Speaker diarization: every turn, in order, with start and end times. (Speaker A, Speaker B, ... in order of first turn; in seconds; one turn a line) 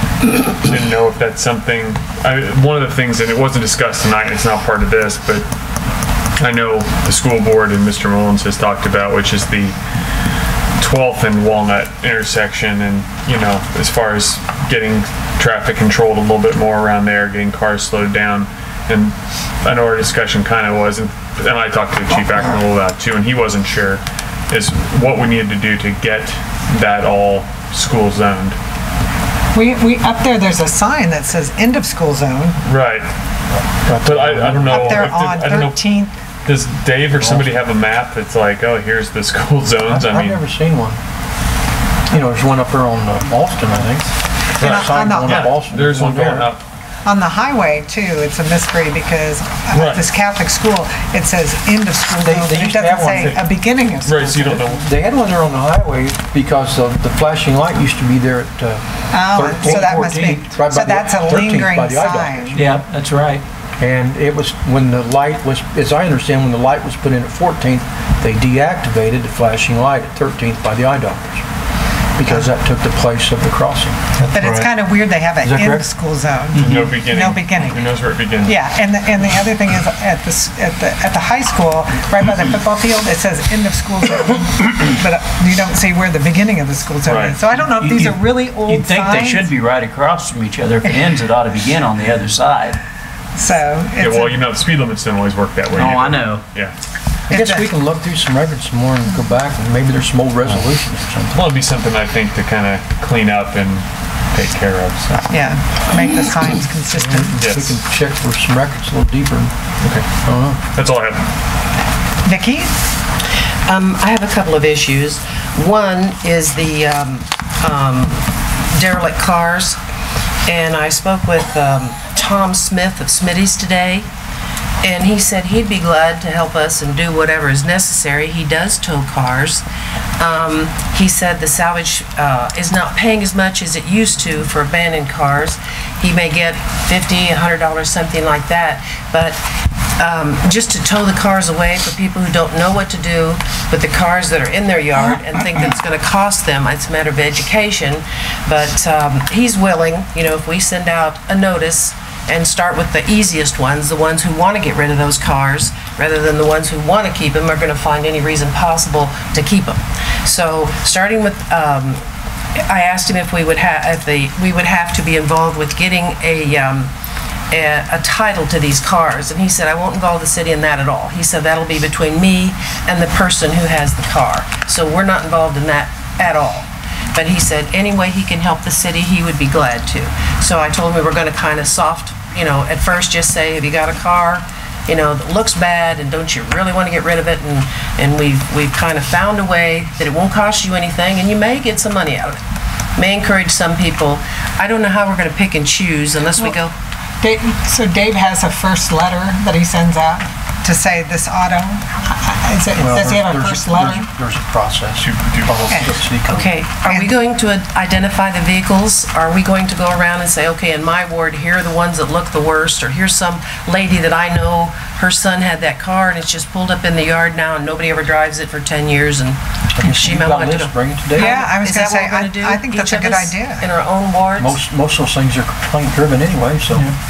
Speaker A: 0.6-5.5
Speaker A: 6.4-9.8
Speaker A: 10.8-28.6
Speaker B: 29.5-32.6
Speaker A: 32.6-33.1
Speaker C: 33.7-35.0
Speaker A: 34.0-35.8
Speaker B: 34.6-36.1
Speaker A: 36.4-40.4
Speaker C: 39.8-41.0
Speaker C: 42.1-46.5
Speaker A: 44.6-46.6
Speaker B: 44.6-45.4
Speaker B: 47.0-54.6
Speaker A: 49.7-50.0
Speaker C: 52.2-53.4
Speaker A: 54.0-54.8
Speaker C: 54.6-62.7
Speaker B: 59.1-62.7
Speaker D: 59.5-60.6
Speaker D: 62.5-63.4
Speaker C: 63.8-71.5
Speaker C: 72.2-74.7
Speaker B: 74.3-77.9
Speaker C: 75.4-75.9
Speaker A: 76.6-78.6
Speaker B: 78.4-89.5
Speaker A: 87.0-87.4
Speaker D: 87.6-92.8
Speaker B: 93.3-94.4
Speaker A: 94.0-96.7
Speaker D: 95.7-96.4
Speaker C: 97.3-101.5
Speaker B: 97.3-97.7
Speaker A: 101.3-105.3
Speaker B: 105.3-107.3
Speaker C: 106.9-109.5
Speaker A: 107.4-107.8
Speaker A: 109.8-110.1
Speaker C: 110.2-110.6
Speaker A: 110.7-111.3
Speaker B: 112.2-112.7
Speaker E: 113.7-119.8
Speaker E: 120.5-124.1
Speaker E: 124.8-129.6
Speaker E: 130.2-139.4
Speaker E: 140.0-162.0
Speaker E: 162.7-166.9
Speaker E: 167.5-192.4
Speaker E: 192.9-196.7
Speaker B: 197.2-204.1
Speaker C: 202.8-206.5
Speaker A: 205.0-205.9
Speaker E: 206.3-224.6
Speaker B: 206.8-207.1
Speaker C: 219.7-221.4
Speaker B: 221.2-223.7
Speaker C: 224.4-226.9